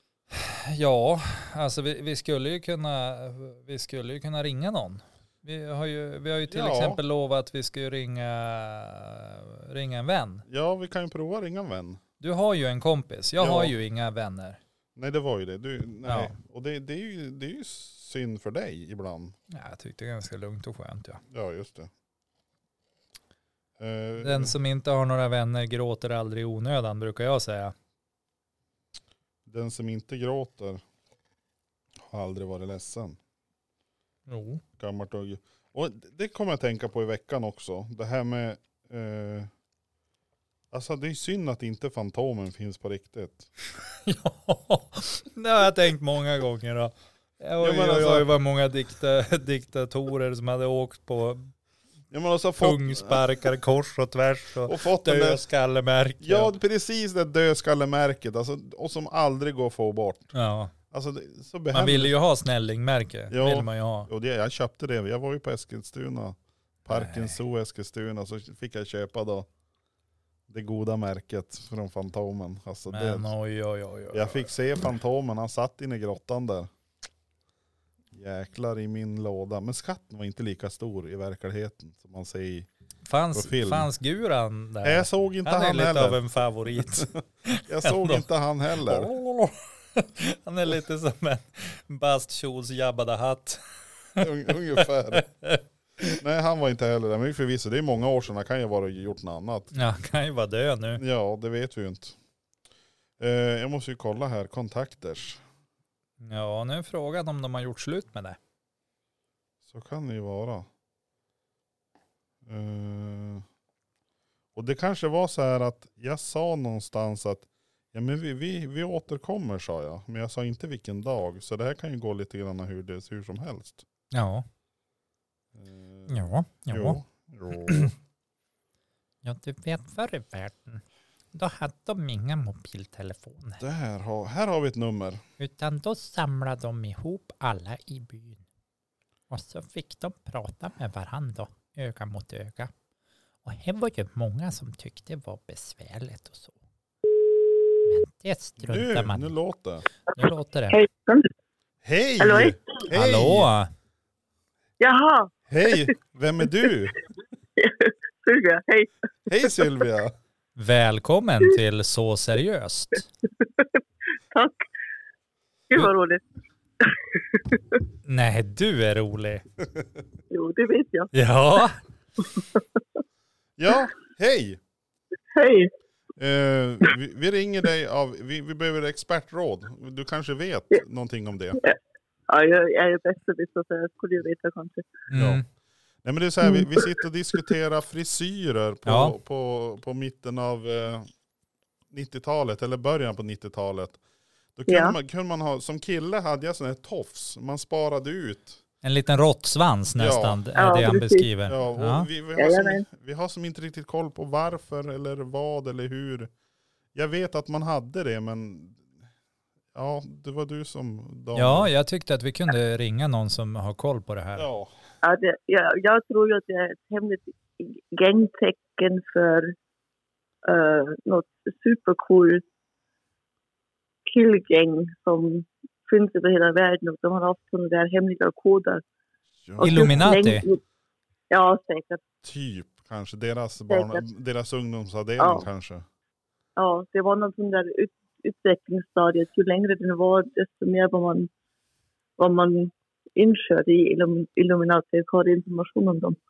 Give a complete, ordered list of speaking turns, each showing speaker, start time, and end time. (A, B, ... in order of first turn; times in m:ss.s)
0:00.3-0:10.4 A
0:06.5-0:07.0 B
0:10.5-0:12.0 B
0:12.2-0:14.6 A
0:13.4-0:13.8 B
0:15.0-0:19.4 B
0:16.0-0:16.3 A
0:19.5-0:21.2 A
0:21.3-0:21.9 B
0:23.8-0:24.6 B
0:24.2-0:27.7 A
0:29.5-0:30.8 B
0:32.0-0:33.2 B
0:34.3-0:34.6 A
0:34.8-0:39.5 B
0:40.7-0:43.5 B
0:44.0-0:51.5 A
0:47.6-0:48.3 B
0:52.1-0:53.2 B
0:52.6-0:56.5 A
0:54.7-0:55.4 B
0:56.2-1:00.3 B
1:00.3-1:00.7 A
1:00.9-1:02.1 B
1:01.7-1:04.1 A
1:03.3-1:09.5 B
1:06.9-1:07.4 A
1:10.5-1:13.3 B
1:12.9-1:14.5 A
1:14.1-1:16.7 B
1:18.1-1:22.7 B
1:23.0-1:33.6 A
1:23.3-1:23.9 B
1:24.8-1:26.2 B
1:26.7-1:29.1 B
1:34.2-1:35.2 B
1:34.8-1:36.1 A
1:36.2-1:39.7 B
1:39.7-1:41.0 A
1:41.0-1:42.2 B
1:43.2-1:45.4 B
1:46.2-1:48.4 A
1:49.7-1:50.7 B
1:52.5-1:53.4 B
1:54.6-2:03.8 B
2:04.1-2:04.5 A
2:05.5-2:07.9 B
2:06.1-2:07.0 A
2:07.6-2:07.9 A
2:09.2-2:10.8 A
2:11.3-2:13.6 A
2:13.6-2:15.2 B
2:15.4-2:18.4 A
2:19.3-2:22.7 A
2:23.4-2:26.6 A
2:27.9-2:29.3 A
2:28.6-2:29.8 B
2:30.2-2:30.8 A
2:30.7-2:31.3 C
2:31.8-2:33.5 B
2:32.2-2:32.8 C
2:32.9-2:33.7 A
2:34.8-2:35.9 C
2:35.5-2:37.0 B
2:37.6-2:38.9 C
2:39.3-2:40.2 B
2:40.6-2:43.1 A
2:44.3-2:44.6 C
2:45.7-2:46.2 C
2:46.8-2:47.6 C
2:48.1-2:49.4 A
2:50.3-2:51.1 C
2:51.1-2:51.8 A
2:52.4-2:52.6 C
2:53.6-2:54.6 B
2:55.3-2:55.7 C
2:56.2-3:01.6 B
3:02.3-3:04.9 C
3:05.1-3:05.4 A
3:05.2-3:05.4 B
3:06.0-3:11.1 B
3:06.5-3:06.8 C
3:08.9-3:09.2 A
3:11.9-3:14.0 B
3:14.6-3:18.6 B
3:14.7-3:15.0 C
3:18.8-3:22.1 A
3:20.0-3:20.4 B
3:20.6-3:21.3 C
3:21.5-3:26.3 B
3:22.4-3:22.8 C
3:26.9-3:28.8 B
3:29.7-3:31.7 B
3:31.4-3:34.5 A
3:34.4-3:34.7 B
3:35.0-3:39.6 C
3:40.4-3:42.4 C
3:44.1-3:48.8 C
3:49.4-3:50.1 B
3:49.6-3:50.6 C
3:49.6-3:50.5 A
3:51.3-3:52.0 C
3:52.2-3:55.8 B
3:53.7-3:54.0 C
3:55.2-3:55.5 C
3:56.6-4:01.3 C
4:02.2-4:06.2 C